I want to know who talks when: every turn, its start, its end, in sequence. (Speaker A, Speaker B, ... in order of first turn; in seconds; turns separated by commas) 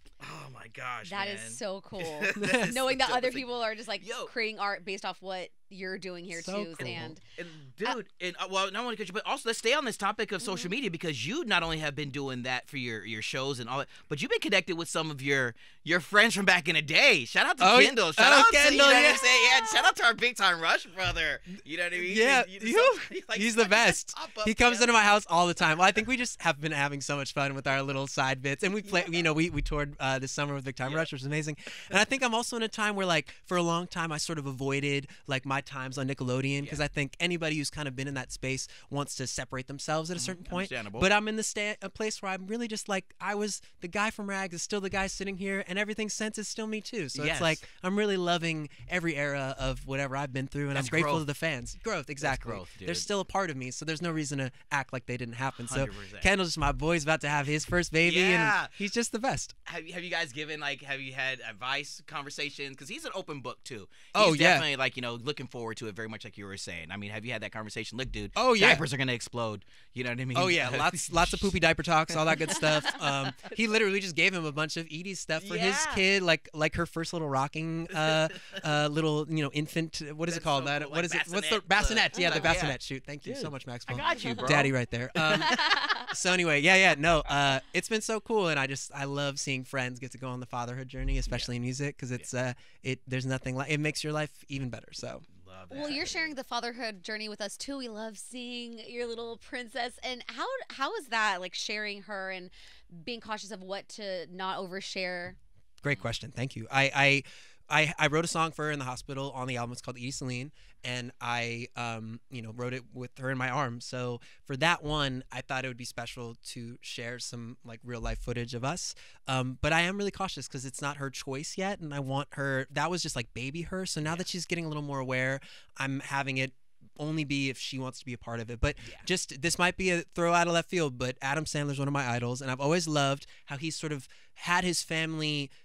Speaker A: 0.2-4.3, Speaker B: 1.0-7.2, Speaker C: 2.4-2.8, Speaker C: 6.3-7.2, Speaker A: 6.8-24.9, Speaker C: 17.6-19.2, Speaker C: 21.9-59.5, Speaker A: 28.8-29.2, Speaker A: 30.8-31.1, Speaker A: 40.1-41.1, Speaker A: 47.1-47.6, Speaker A: 50.7-51.3, Speaker A: 52.2-53.1, Speaker A: 55.5-56.3, Speaker A: 58.0-58.7, Speaker A: 59.6-71.5, Speaker C: 64.1-64.7, Speaker C: 68.3-68.8, Speaker C: 70.3-95.2, Speaker A: 72.1-73.5, Speaker A: 75.4-76.0, Speaker A: 77.9-78.7, Speaker A: 80.2-85.9, Speaker B: 85.5-86.0, Speaker A: 91.3-91.5, Speaker A: 95.3-96.3, Speaker B: 95.7-105.4, Speaker C: 105.8-135.5, Speaker A: 124.0-124.3